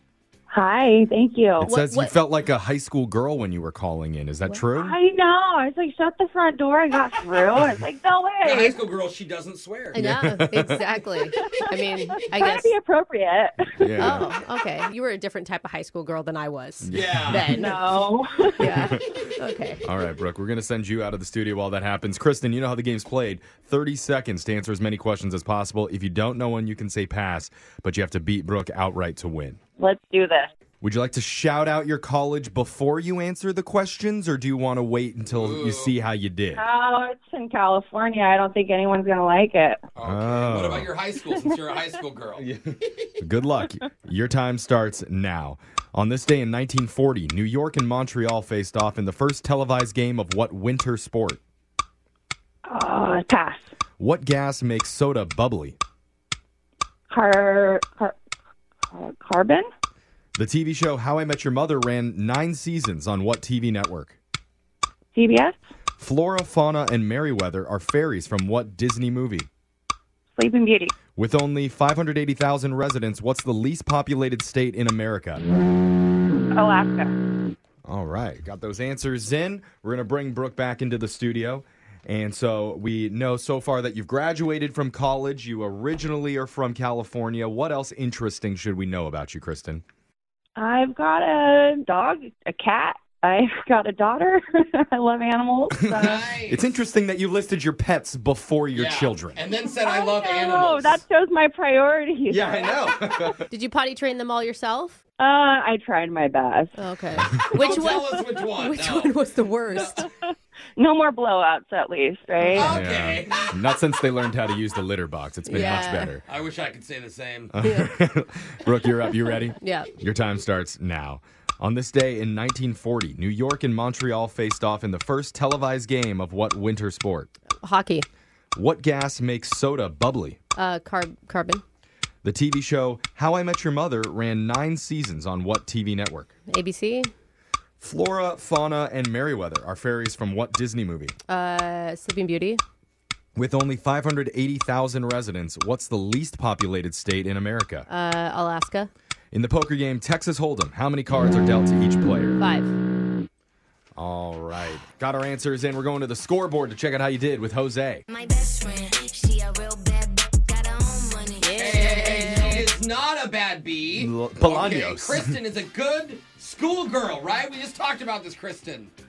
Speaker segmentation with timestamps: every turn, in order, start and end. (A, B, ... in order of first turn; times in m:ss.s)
0:00.5-0:01.7 A
0:01.6-0:05.0 B
0:01.6-0:02.1 C
0:04.7-0:08.8 A
0:08.4-0:10.0 D
0:09.9-0:12.7 C
0:10.0-0:10.8 B
0:12.2-0:13.6 A
0:13.8-0:14.3 B
0:14.0-0:17.9 C
0:16.8-0:17.6 B
0:16.9-0:17.7 D
0:17.5-0:18.7 A
0:18.6-0:19.8 C
0:18.6-0:19.0 B
0:19.8-0:29.6 B
0:29.8-0:30.5 A
0:30.8-0:36.6 B
0:35.3-0:35.9 D
0:36.6-0:39.8 A
0:40.0-0:42.5 D
0:40.0-0:40.9 B
0:41.3-0:41.6 A
0:42.4-0:51.4 B
0:52.7-0:53.6 A
0:54.0-0:55.8 B
0:57.1-0:58.2 A
0:58.9-0:59.7 A
1:00.4-1:04.2 B
1:05.2-1:05.6 A
1:06.0-1:09.5 B
1:10.4-1:11.0 A
1:11.2-1:15.4 B
1:16.5-1:17.2 A
1:17.8-1:29.8 B
1:30.6-1:36.3 A
1:35.8-1:39.4 B
1:35.9-1:36.6 D
1:38.7-1:41.0 D
1:39.5-1:42.9 A
1:42.3-1:43.4 B
1:43.5-1:45.0 C
1:45.2-1:46.8 A
1:46.8-1:50.1 C
1:47.5-1:49.2 D
1:50.0-1:52.8 A
1:52.5-1:53.5 D
1:52.5-1:56.2 B
1:55.5-1:56.2 C
1:56.3-1:57.5 D
1:57.5-2:07.3 B
1:57.6-1:57.9 C
1:59.6-1:59.9 C
2:07.6-2:08.1 C
2:08.6-2:10.4 B
2:10.6-2:11.6 C
2:12.2-2:16.3 B
2:16.5-2:17.1 C
2:17.8-2:21.2 B
2:21.3-2:22.6 C
2:23.4-2:27.9 B
2:27.9-2:28.9 C
2:29.3-2:32.4 B
2:32.4-2:32.7 C
2:34.0-2:38.0 B
2:38.1-2:42.5 E
2:41.4-2:42.7 C
2:41.6-2:48.9 D
2:43.9-2:45.4 B